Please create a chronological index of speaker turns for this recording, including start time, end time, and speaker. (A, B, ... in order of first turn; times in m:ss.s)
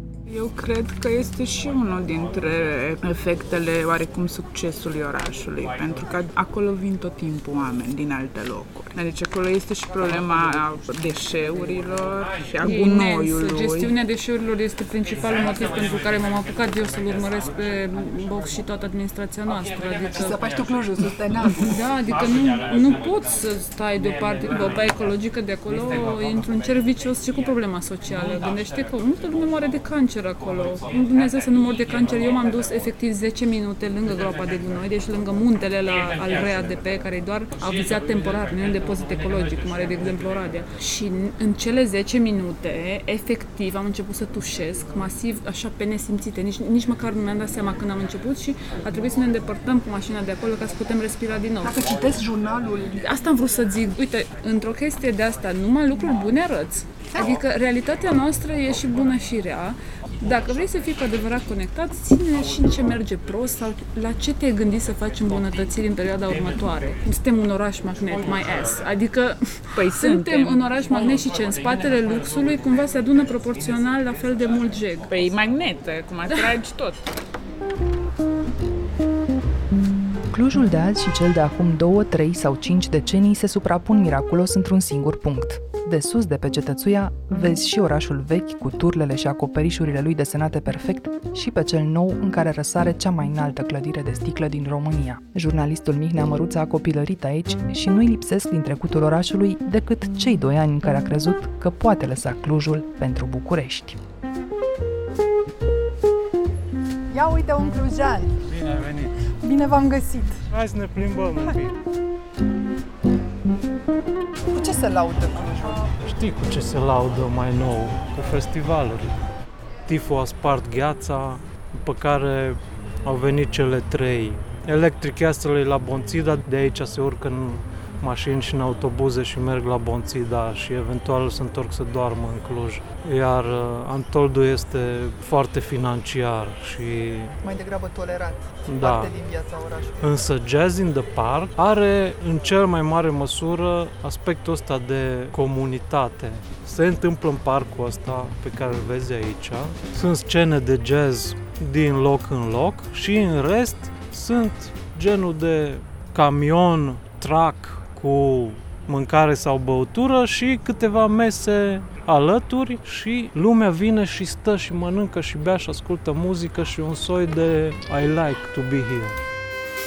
0:00.2-0:13.9 A
0:12.6-0:20.5 B
0:20.2-0:21.7 C
0:21.6-0:51.9 B
0:51.6-0:53.0 C
0:53.0-1:15.1 B
1:09.8-1:11.1 A
1:15.1-1:17.1 A
1:20.3-1:44.0 D
1:47.1-1:48.3 C
1:48.6-1:49.1 E
1:49.4-1:50.4 C
1:50.5-1:51.8 E
1:54.5-1:55.9 C
1:56.0-1:59.1 E
1:59.9-2:17.3 E
2:17.4-2:20.0 C
2:18.7-2:19.1 E
2:20.0-2:49.2 E